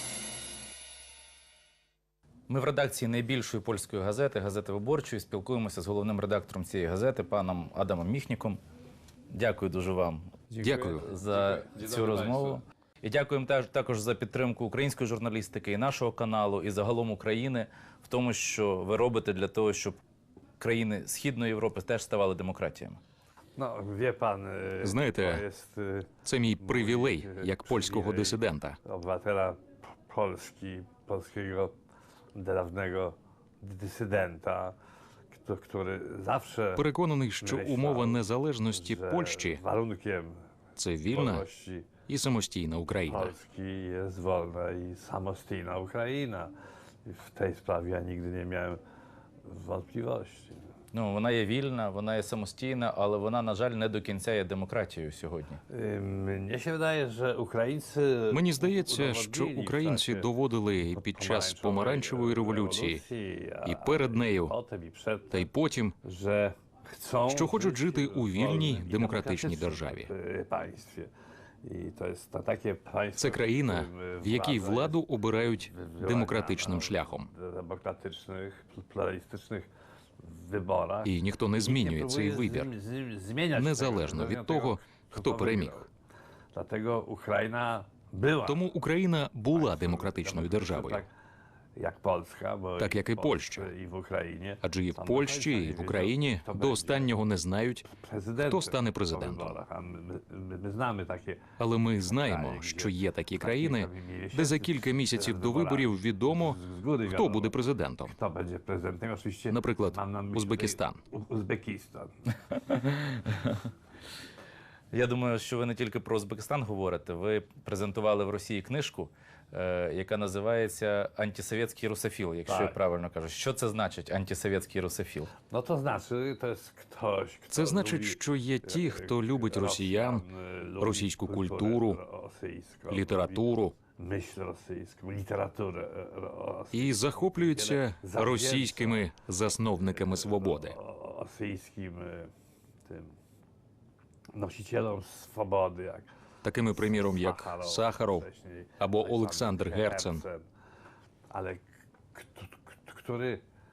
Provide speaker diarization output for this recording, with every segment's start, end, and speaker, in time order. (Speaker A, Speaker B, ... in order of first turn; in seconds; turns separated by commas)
Speaker A: 2.5-8.6, Speaker A: 9.3-20.0, Speaker B: 10.5-12.6, Speaker C: 10.6-11.1, Speaker A: 20.6-23.0, Speaker B: 23.6-31.7, Speaker C: 24.8-25.4, Speaker C: 26.2-28.8, Speaker B: 32.4-34.8, Speaker B: 35.3-36.9, Speaker C: 36.8-39.6, Speaker B: 37.4-40.4, Speaker C: 40.8-41.5, Speaker B: 41.1-41.9, Speaker C: 42.1-43.3, Speaker B: 43.1-46.5, Speaker B: 47.1-48.8, Speaker B: 49.5-50.6, Speaker A: 50.9-55.6, Speaker B: 55.7-60.3, Speaker C: 58.3-63.0, Speaker B: 60.9-65.5, Speaker C: 63.6-64.6, Speaker C: 65.3-66.0, Speaker B: 66.0-71.1, Speaker C: 67.3-70.1, Speaker B: 71.6-75.0, Speaker C: 73.2-77.3, Speaker B: 75.6-79.7, Speaker B: 80.2-85.9, Speaker C: 81.0-82.7, Speaker C: 83.6-85.8, Speaker B: 86.5-88.6, Speaker C: 88.5-91.0, Speaker B: 89.5-91.1, Speaker B: 91.8-97.1, Speaker C: 92.8-93.7, Speaker C: 94.6-97.9, Speaker B: 97.9-112.3, Speaker C: 98.4-99.6, Speaker C: 101.6-108.2, Speaker C: 109.5-111.0, Speaker A: 112.5-113.6, Speaker A: 114.9-125.3, Speaker B: 122.5-122.8, Speaker B: 125.4-139.1, Speaker C: 127.5-130.2, Speaker C: 130.8-132.0, Speaker C: 132.9-133.8, Speaker C: 136.7-140.8, Speaker B: 139.9-142.3, Speaker B: 144.3-146.1, Speaker C: 146.4-148.2, Speaker B: 146.7-150.5, Speaker C: 148.8-150.2, Speaker B: 151.3-153.4